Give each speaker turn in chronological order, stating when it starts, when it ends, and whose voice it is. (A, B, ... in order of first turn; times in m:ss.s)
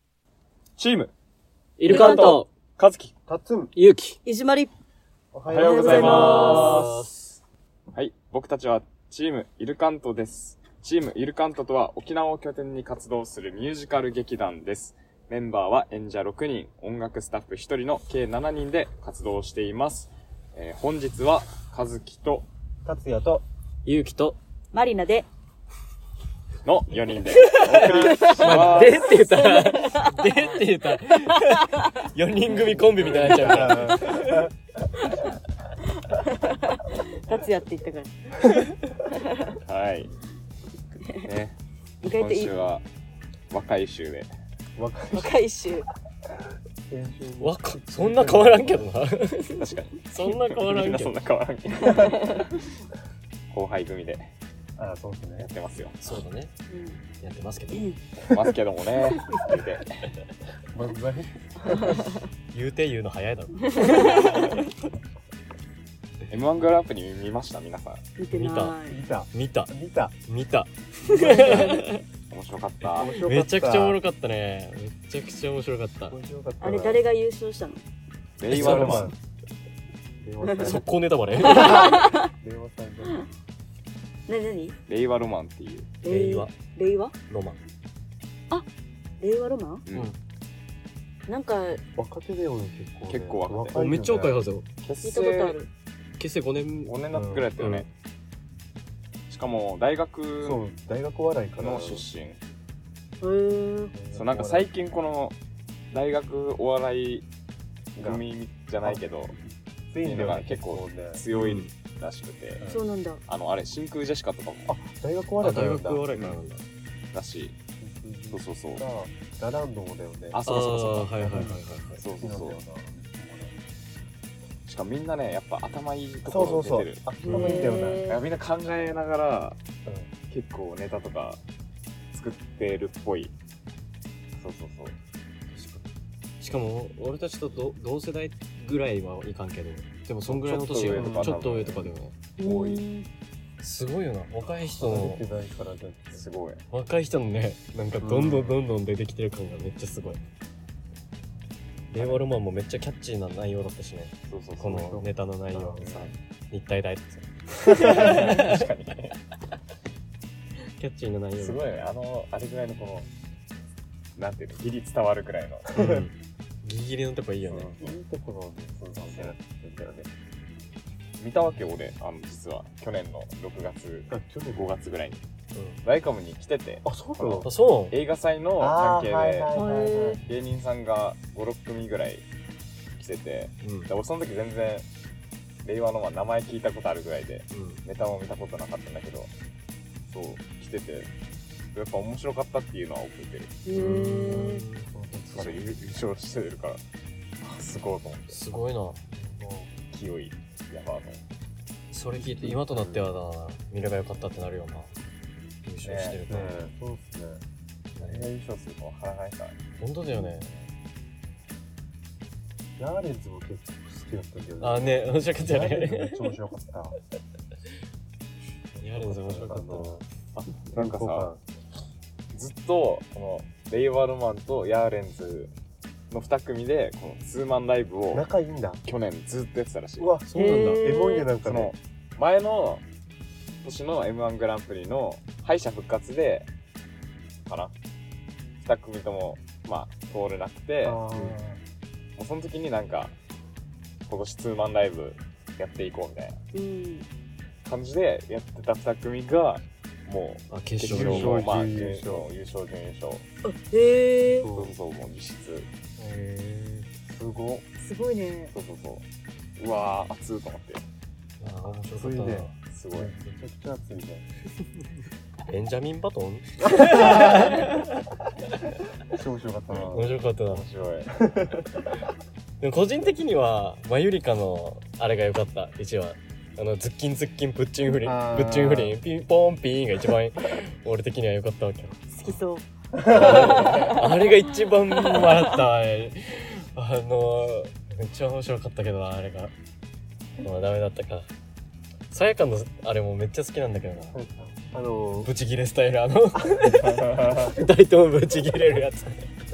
0:00.8-0:01.1 A
0:01.8-0:02.5 B
0:01.8-0:03.1 A
0:01.9-0:02.4 C
0:03.3-0:03.7 D
0:03.8-0:04.2 B
0:04.2-0:04.7 C
0:05.3-0:06.9 D
0:05.5-0:07.1 A
0:05.6-0:06.9 C
0:05.7-0:07.2 B
0:07.9-0:22.5 A
0:22.8-0:23.4 D
0:23.8-0:24.4 B
0:24.7-0:25.3 C
0:26.6-0:29.2 A
0:27.3-0:34.5 B
0:27.8-0:28.5 D
0:28.2-0:30.2 C
0:31.3-0:31.9 C
0:33.0-0:34.5 D
0:33.0-0:33.8 A
0:36.0-0:39.6 C
0:39.6-0:40.1 A
0:41.2-0:41.6 A
0:42.0-0:42.5 C
0:42.1-0:42.8 A
0:43.5-0:44.3 A
0:44.8-0:45.4 D
0:45.1-0:45.9 C
0:46.9-0:48.9 D
0:47.4-0:51.2 B
0:49.6-0:52.6 A
0:51.8-0:52.4 C
0:53.5-0:54.3 A
0:54.8-0:55.5 D
0:55.4-0:56.0 A
0:56.0-0:56.5 B
0:56.7-0:57.0 C
0:57.2-0:57.9 B
0:58.2-1:00.0 A
1:00.7-1:02.1 D
1:01.8-1:02.2 C
1:02.5-1:04.3 B
1:03.6-1:04.6 C
1:06.3-1:08.0 A
1:08.2-1:09.0 C
1:08.3-1:08.8 B
1:08.9-1:10.2 D
1:09.3-1:09.7 B
1:10.2-1:12.0 B
1:11.1-1:11.9 C
1:11.1-1:11.7 D
1:12.3-1:13.1 A
1:13.0-1:14.0 D
1:13.1-1:16.2 B
1:16.1-1:17.0 D
1:16.6-1:17.8 C
1:18.4-1:19.1 A
1:18.5-1:19.1 B
1:18.5-1:19.2 D
1:20.2-1:23.3 D
1:20.6-1:22.0 B
1:21.4-1:22.3 C
1:24.3-1:24.8 C
1:24.9-1:25.9 A
1:26.0-1:27.2 C
1:26.1-1:26.5 B
1:27.3-1:27.6 B
1:29.2-1:29.8 C
1:31.3-1:31.8 C
1:32.0-1:34.4 D
1:33.1-1:33.8 A
1:33.7-1:34.6 B
1:34.8-1:35.6 A
1:35.0-1:35.7 C
1:36.2-1:37.0 B
1:36.8-1:37.9 A
1:37.1-1:37.5 D
1:37.6-1:37.9 B
1:39.3-1:40.6 A
1:40.4-1:42.0 D
1:41.6-1:42.4 A
1:43.2-1:43.9 C
1:43.9-1:44.7 D
1:44.1-1:45.4 A
1:45.9-1:47.3 A
1:48.0-1:49.4 A
1:48.0-1:48.2 D
1:49.9-1:51.2 D
1:50.0-1:52.6 A
1:51.3-1:51.7 B
1:52.6-1:52.8 D
1:52.7-1:53.2 C
1:53.3-1:54.7 A
1:54.7-1:56.1 D
1:55.4-1:56.6 B
1:57.1-1:57.6 A
1:57.8-2:03.6 D
1:58.3-1:58.8 A
2:00.3-2:01.4 A
2:00.4-2:02.0 B
2:02.0-2:02.6 A
2:04.7-2:07.0 A
2:06.2-2:08.2 D
2:07.2-2:07.6 B
2:07.3-2:08.2 C
2:08.1-2:09.6 A
2:09.8-2:10.1 D
2:10.3-2:11.4 A
2:12.1-2:13.3 A
2:14.3-2:15.0 A
2:15.5-2:15.8 B
2:16.4-2:22.1 B
2:20.3-2:22.8 A
2:20.9-2:21.5 D
2:22.4-2:23.1 C
2:23.6-2:25.2 B
2:24.6-2:26.2 D
2:26.1-2:26.6 A
2:26.7-2:30.2 B
2:28.0-2:28.6 D
2:31.9-2:38.7 B
2:34.3-2:34.9 A
2:34.6-2:36.1 D
2:35.8-2:36.2 A
2:37.6-2:39.2 A
2:40.8-2:41.7 B
2:41.4-2:43.1 A
2:44.2-2:45.7 A
2:45.7-2:46.1 D
2:45.8-2:47.8 B
2:47.5-2:47.9 A
2:47.8-2:50.1 D
2:48.8-2:49.4 A
2:51.2-2:55.2 A
2:54.1-2:54.8 D
2:55.5-2:55.8 B
2:55.8-2:59.5 A
2:56.8-2:57.5 D
2:57.4-2:58.0 B
2:58.6-3:00.2 D
2:59.5-3:00.2 C
3:00.2-3:02.3 A
3:03.0-3:04.9 A
3:03.6-3:03.9 B
3:05.6-3:09.3 A
3:07.5-3:07.8 B
3:10.1-3:11.1 A
3:11.7-3:13.6 A
3:13.7-3:14.6 C
3:13.7-3:14.9 B
3:14.7-3:15.7 D
3:15.3-3:16.8 A
3:17.4-3:18.4 A
3:18.3-3:19.0 B
3:19.1-3:19.7 D
3:19.9-3:21.2 A
3:21.9-3:24.9 B
3:22.2-3:23.1 D
3:25.6-3:26.7 B
3:25.8-3:26.5 A
3:26.2-3:27.4 D
3:28.0-3:28.3 D
3:28.0-3:29.6 A
3:29.8-3:30.5 B
3:32.8-3:37.0 D
3:34.6-3:36.2 B
3:38.8-3:40.0 B
3:39.0-3:40.0 D
3:40.4-3:41.3 A
3:40.7-3:41.4 D
3:42.3-3:45.5 A
3:46.1-3:48.2 A
3:48.1-3:48.8 D
3:48.8-3:50.1 A
3:50.0-3:51.7 D
3:50.3-3:50.8 B
3:50.4-3:51.3 C
3:51.4-3:52.8 A
3:53.6-3:56.5 A
3:57.5-3:57.7 A
3:58.6-4:01.0 A
4:00.8-4:01.6 D
4:02.2-4:03.1 A
4:04.1-4:06.4 A
4:06.5-4:07.1 C
4:07.6-4:13.2 A
4:10.5-4:11.5 B
4:10.8-4:12.3 D
4:13.4-4:14.5 C
4:14.3-4:14.7 D
4:14.5-4:15.7 A
4:16.0-4:16.8 B
4:17.0-4:17.6 D
4:17.8-4:18.6 C
4:18.5-4:19.0 A
4:19.6-4:20.8 A
4:21.4-4:22.5 B
4:22.0-4:24.2 D
4:22.7-4:23.1 A
4:25.5-4:27.8 B
4:26.8-4:27.7 D
4:29.1-4:30.1 D
4:29.7-4:31.1 A
4:29.9-4:30.7 B
4:31.1-4:32.0 D
4:32.6-4:42.0 B
4:38.0-4:39.0 D
4:42.1-4:42.7 C
4:42.9-4:43.9 D
4:43.1-4:49.5 B
4:43.4-4:44.4 C
4:44.9-4:45.6 C
4:50.4-4:51.3 B
4:52.1-4:54.2 B
4:54.1-4:55.3 D
4:55.2-4:59.3 B
4:56.6-4:57.6 A